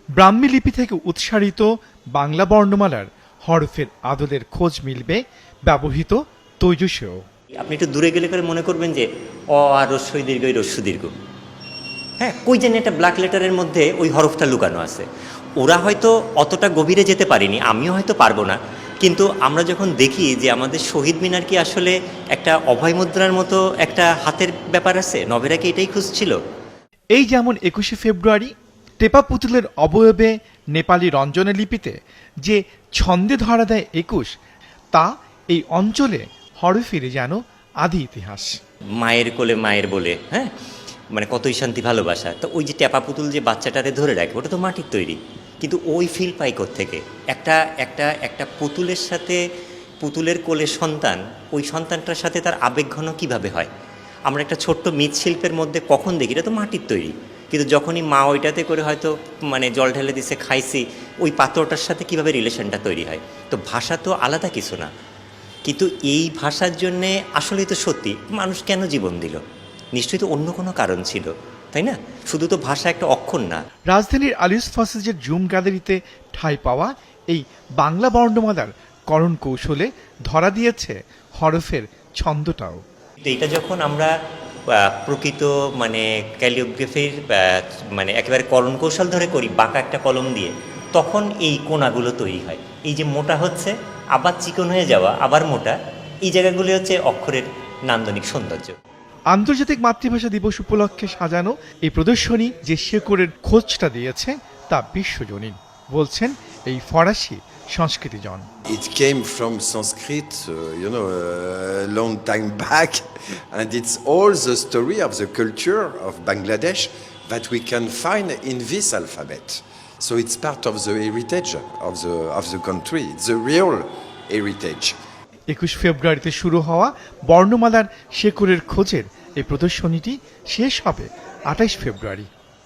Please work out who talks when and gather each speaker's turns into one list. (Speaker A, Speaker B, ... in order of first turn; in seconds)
Speaker A: 0.2-7.2, 27.1-34.3, 34.9-38.5, 73.9-82.8, 99.3-108.5, 125.5-132.3
Speaker B: 7.6-11.1, 12.2-15.1, 15.6-26.4, 39.0-40.5, 41.1-49.4, 50.0-53.7, 54.3-64.9, 65.6-69.4, 69.9-73.6, 83.2-84.1, 84.7-98.7
Speaker C: 108.7-125.0